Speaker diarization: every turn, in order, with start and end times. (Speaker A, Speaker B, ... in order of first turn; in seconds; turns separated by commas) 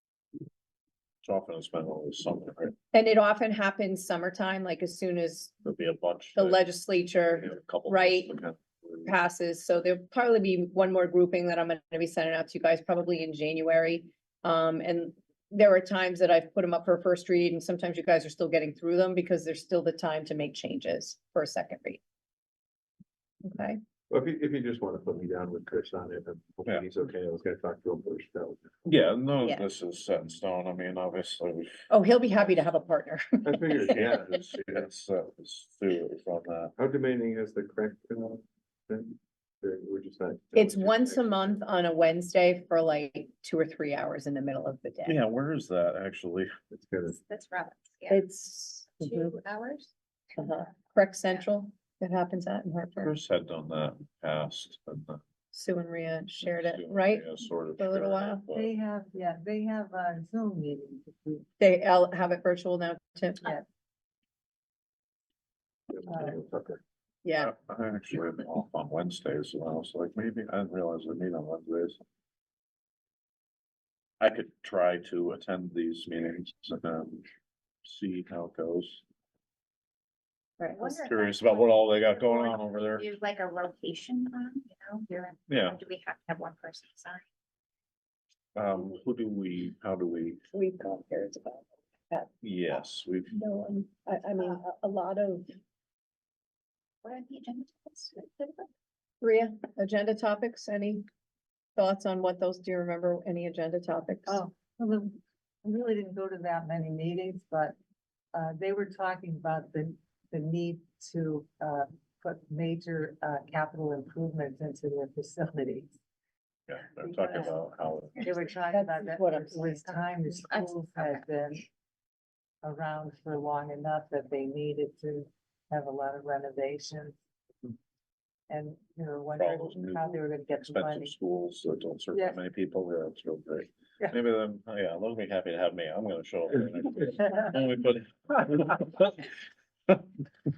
Speaker A: 1.2-2.8, Speaker B: 2.9-5.5, Speaker A: 5.6-6.6, Speaker B: 6.4-8.4, Speaker A: 7.3-9.1, Speaker B: 9.1-22.0, Speaker B: 23.4-23.8, Speaker C: 24.1-28.8, Speaker A: 28.9-31.9, Speaker B: 31.9-34.1, Speaker C: 33.5-34.0, Speaker A: 33.9-36.8, Speaker C: 36.8-41.2, Speaker B: 40.5-45.2, Speaker A: 45.1-46.5, Speaker C: 46.7-47.2, Speaker D: 47.1-48.2, Speaker B: 48.1-49.3, Speaker D: 49.0-49.9, Speaker B: 50.4-53.1, Speaker A: 53.0-55.2, Speaker B: 55.5-58.5, Speaker A: 56.4-58.7, Speaker E: 58.5-61.5, Speaker B: 61.6-63.6, Speaker C: 65.9-66.8, Speaker E: 66.1-66.4, Speaker B: 67.2-67.5, Speaker A: 67.4-72.0, Speaker A: 74.2-77.3, Speaker A: 77.8-79.0, Speaker D: 80.6-87.2, Speaker A: 80.8-83.1, Speaker A: 85.5-85.8, Speaker A: 88.5-90.4, Speaker B: 90.5-92.3, Speaker A: 92.4-93.4, Speaker B: 93.3-95.5, Speaker D: 97.0-98.7, Speaker B: 99.2-101.0, Speaker B: 101.8-104.4, Speaker E: 104.3-107.8, Speaker E: 108.3-115.9, Speaker A: 116.7-118.4, Speaker E: 117.0-117.6, Speaker E: 118.2-121.7, Speaker B: 118.7-120.0, Speaker D: 120.5-121.2, Speaker E: 122.6-127.2, Speaker E: 128.5-131.1, Speaker A: 129.3-139.3, Speaker E: 132.1-132.4